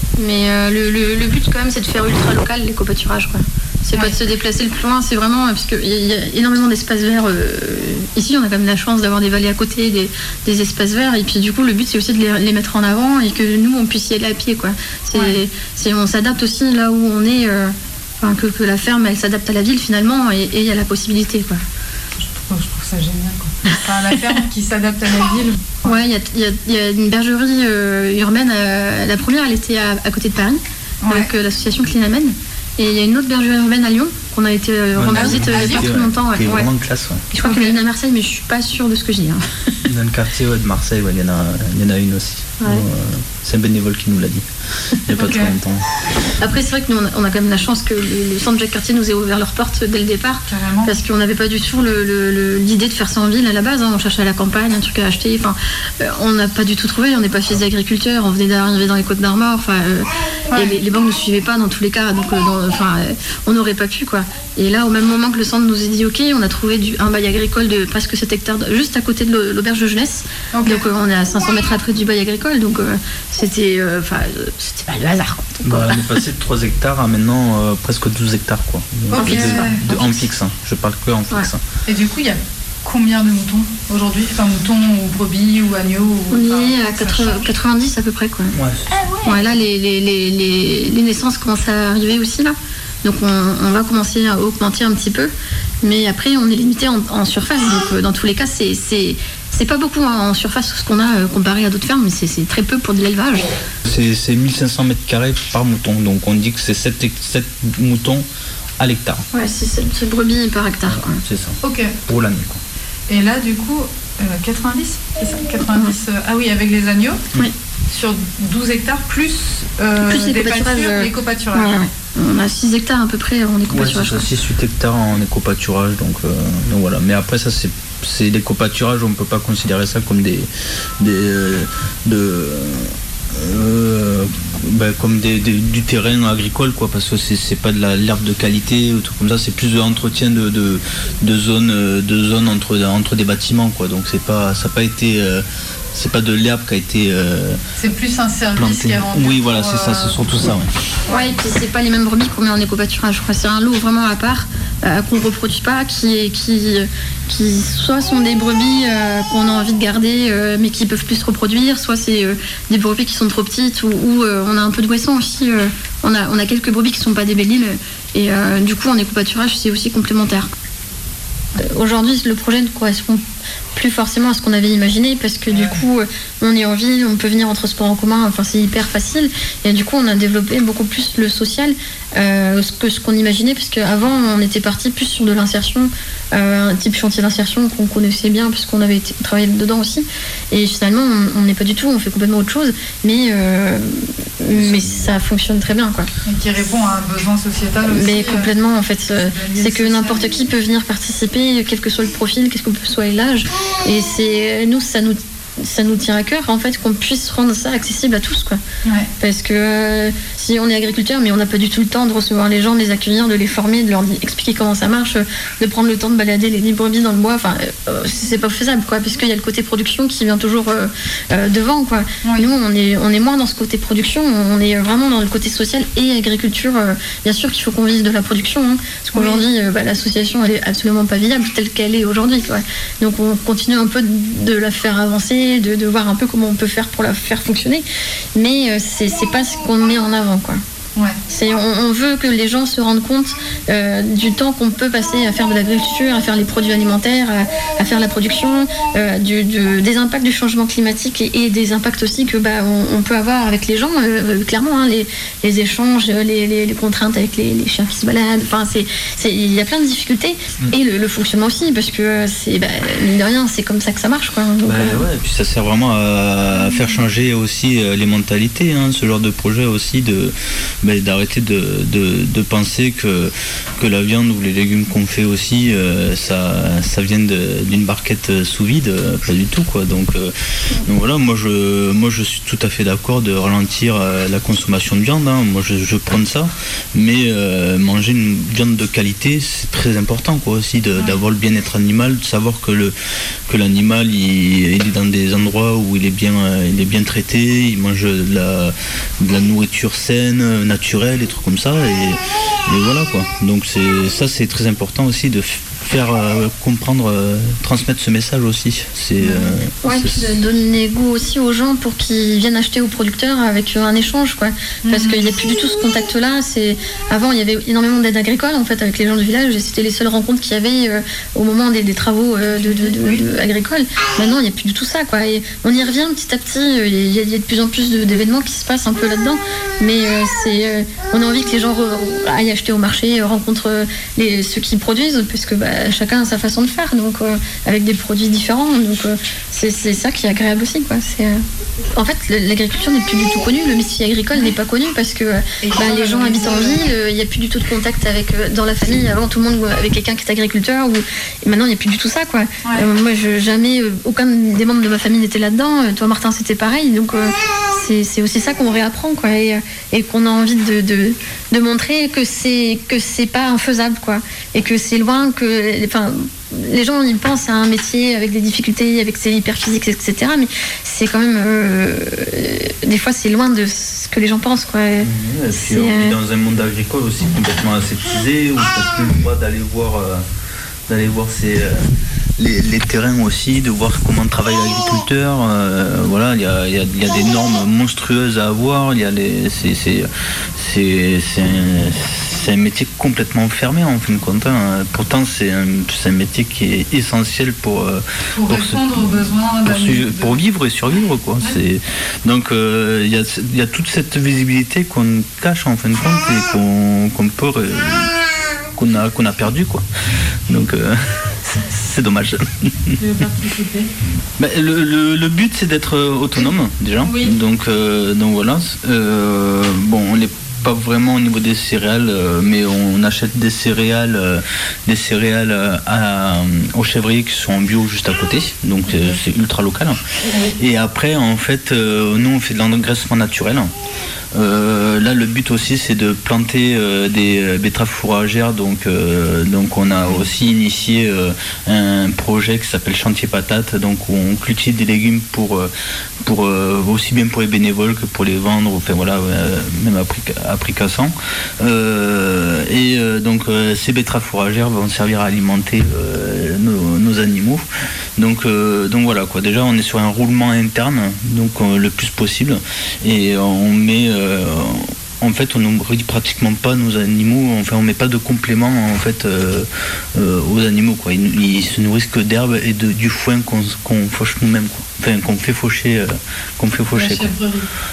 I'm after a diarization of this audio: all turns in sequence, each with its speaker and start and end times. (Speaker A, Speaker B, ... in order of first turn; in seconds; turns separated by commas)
Speaker A: 0.2-21.6, Speaker B: 15.1-15.4, Speaker B: 22.2-26.0, Speaker A: 25.8-36.7, Speaker B: 31.0-31.3, Speaker C: 35.0-37.3, Speaker B: 35.1-36.0, Speaker A: 37.3-39.8, Speaker B: 37.4-37.8, Speaker C: 39.9-45.9, Speaker B: 45.2-45.5, Speaker A: 46.4-76.1, Speaker B: 50.5-50.9, Speaker B: 60.5-60.8, Speaker B: 70.5-70.8, Speaker C: 75.6-81.6, Speaker B: 79.1-79.8, Speaker A: 79.1-80.3, Speaker B: 81.8-87.4, Speaker A: 86.3-88.5, Speaker C: 88.5-89.1, Speaker A: 89.2-103.5, Speaker C: 103.8-108.2, Speaker C: 108.8-109.2, Speaker A: 109.3-111.2, Speaker C: 110.9-112.6, Speaker B: 111.6-111.9, Speaker B: 113.1-117.2, Speaker B: 117.9-121.8, Speaker A: 120.0-124.2, Speaker C: 123.7-147.6, Speaker B: 147.8-150.2, Speaker C: 148.6-150.7, Speaker A: 151.1-170.5, Speaker A: 171.6-173.2, Speaker A: 173.7-196.1, Speaker B: 175.5-175.8, Speaker C: 194.5-195.2, Speaker B: 196.2-198.5, Speaker A: 197.8-208.6, Speaker B: 199.1-200.2, Speaker B: 208.8-209.1, Speaker A: 209.2-240.6, Speaker B: 222.2-222.5, Speaker B: 229.1-229.4, Speaker A: 241.3-265.0, Speaker C: 264.6-292.9, Speaker C: 293.5-310.4, Speaker A: 309.2-341.4, Speaker B: 314.8-315.3, Speaker B: 322.4-323.2, Speaker A: 341.9-376.1, Speaker B: 345.6-346.8, Speaker C: 375.0-380.2, Speaker C: 380.9-408.1, Speaker B: 398.3-400.3, Speaker C: 408.7-409.8, Speaker C: 410.5-413.0, Speaker B: 413.0-413.9, Speaker C: 414.4-430.0, Speaker B: 417.0-417.3, Speaker B: 430.3-430.6, Speaker C: 430.5-433.7, Speaker C: 434.3-445.7, Speaker B: 440.0-440.2, Speaker C: 446.2-457.6, Speaker C: 458.2-477.3, Speaker B: 476.9-477.7